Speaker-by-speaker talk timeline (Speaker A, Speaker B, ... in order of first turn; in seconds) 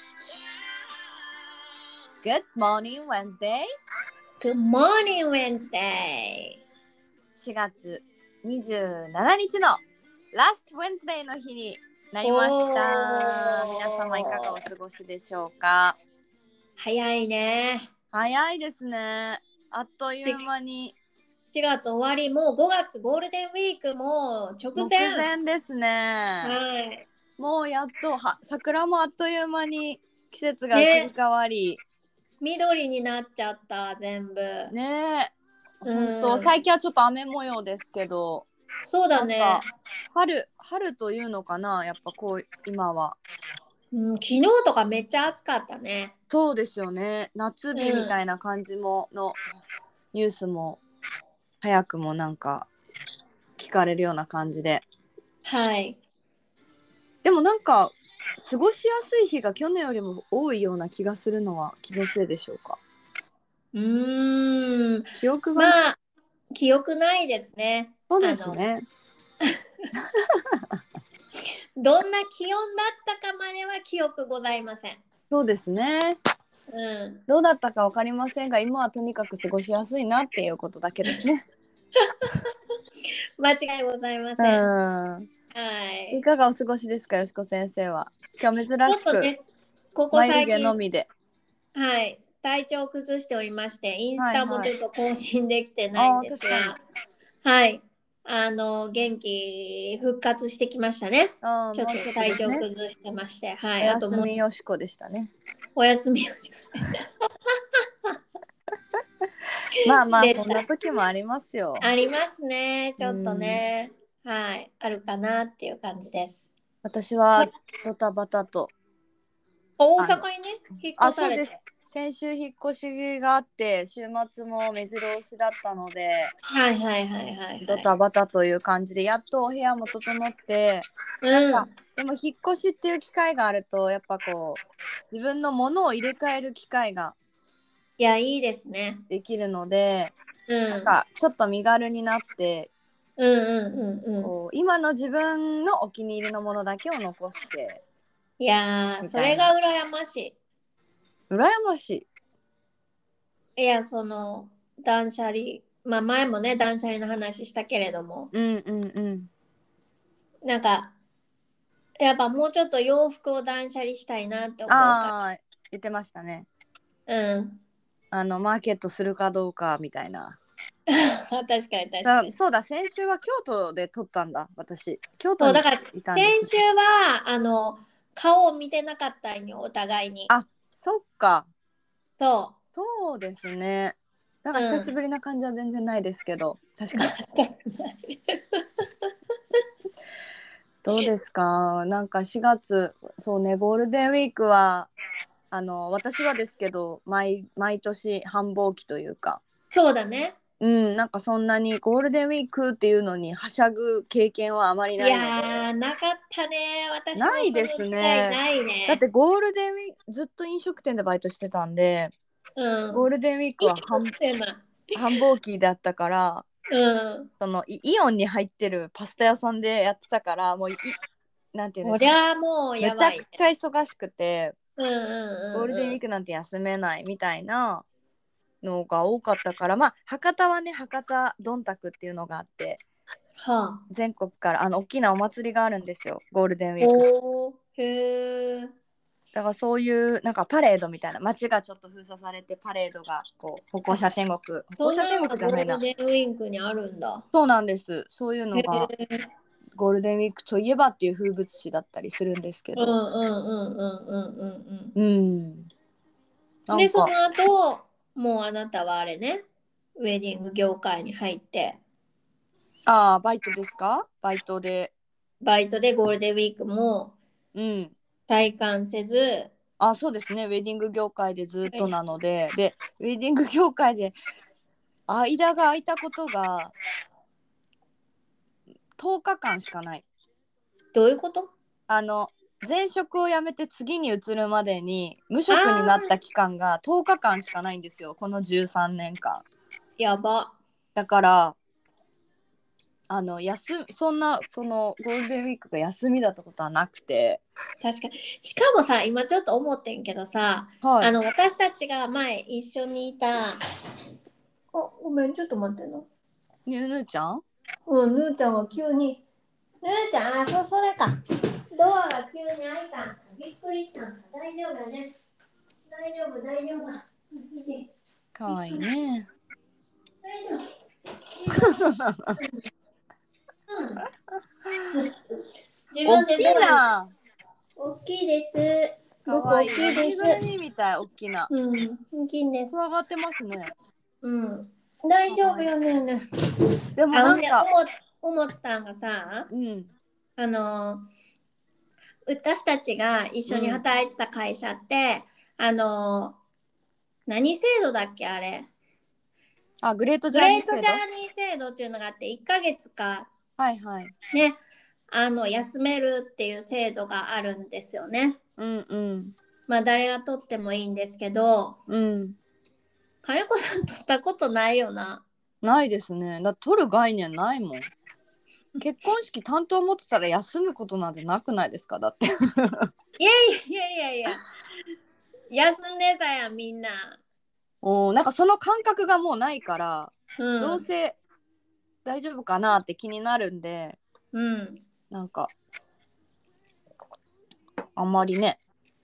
Speaker A: 2.2-3.7, 7.3-9.8, 10.3-16.0, 18.1-20.9, 24.8-26.6, 27.4-31.8, 34.7-35.3, 35.9-38.5, 39.1-43.2, 46.3-49.4, 50.1-50.8, 51.6-52.7, 53.6-54.9, 57.2-62.8, 65.2-65.8, 68.1-68.9, 75.3-76.2, 77.3-81.5, 84.4-85.3, 86.1-89.3, 90.1-91.1, 94.2-94.7, 96.0-96.8, 101.4-102.7, 103.8-105.3, 109.8-111.9, 113.0-113.6, 116.8-118.7, 120.0-120.3, 121.0-126.3, 127.6-137.2, 139.1-140.2, 140.7-142.7, 144.2-147.8, 149.0-149.5, 151.3-152.1, 158.3-159.3, 164.7-166.5, 168.1-170.4, 172.0-176.5, 180.3-181.5, 182.8-187.2, 190.8-194.9, 195.5-199.4, 200.6-205.7, 207.2-212.1, 212.9-214.2, 214.9-216.5, 217.4-221.0, 221.5-222.1, 222.8-224.6, 225.5-227.9, 228.6-232.8, 233.9-237.1, 239.3-245.8, 247.3-248.9, 249.8-253.0, 255.0-255.7, 256.7-257.1, 262.9-264.9, 267.6-267.9, 269.8-274.2, 275.1-276.7, 279.0-280.1, 281.9-289.4, 291.0-291.6, 293.1-297.4, 300.8-301.1, 306.7-307.4, 318.4-319.3, 321.6-322.4, 326.1-327.1, 329.3-331.5, 332.7-333.7, 335.3-335.7, 337.0-337.7, 339.5-339.9, 343.5-343.8, 349.8-351.0, 353.6-354.1, 358.6-359.4, 361.9-362.4, 365.6-367.9, 368.8-372.9, 377.8-381.2, 382.1-384.0, 385.1-385.5, 388.0-388.6
Speaker B: 4.4-6.6, 12.2-14.6, 16.8-17.9, 21.5-25.3, 26.4-27.1, 30.7-31.1, 32.4-34.7, 35.9-36.5, 38.8-39.7, 43.9-46.1, 47.8-48.2, 55.4-56.0, 63.7-66.0, 66.5-68.6, 69.4-69.9, 71.8-75.0, 76.7-77.2, 82.0-82.3, 83.4-84.7, 85.5-86.2, 88.9-89.4, 90.0-90.8, 91.8-96.8, 97.4-104.3, 105.8-107.0, 110.1-110.6, 111.8-116.5, 119.8-121.5, 126.5-127.9, 131.2-131.7, 138.0-139.0, 140.5-140.9, 143.2-144.3, 148.4-150.3, 153.6-158.3, 160.4-160.9, 162.0-165.1, 167.1-167.6, 170.9-172.3, 175.4-180.3, 182.2-182.6, 184.6-184.9, 186.9-188.7, 199.7-200.4, 205.0-209.0, 212.6-213.1, 213.6-214.7, 216.7-217.3, 221.8-223.4, 224.8-226.0, 233.4-233.8, 236.8-238.7, 244.8-247.2, 248.6-249.3, 252.8-255.0, 256.7-259.4, 260.0-261.8, 265.4-267.2, 268.3-269.5, 280.9-281.5, 285.5-286.1, 290.0-290.6, 297.8-303.6, 304.7-306.1, 307.9-309.2, 309.8-311.2, 311.7-315.2, 315.9-317.9, 318.5-318.8, 320.2-320.7, 321.3-322.6, 323.7-324.0, 325.9-326.8, 327.8-330.4, 331.5-332.8, 334.2-336.2, 337.1-339.5, 340.4-341.1, 342.3-346.4, 347.3-348.7, 350.3-353.3, 354.3-354.6, 355.1-358.4, 359.7-361.8, 363.2-365.2, 373.2-374.4, 375.5-377.2, 380.4-380.9, 384.3-384.8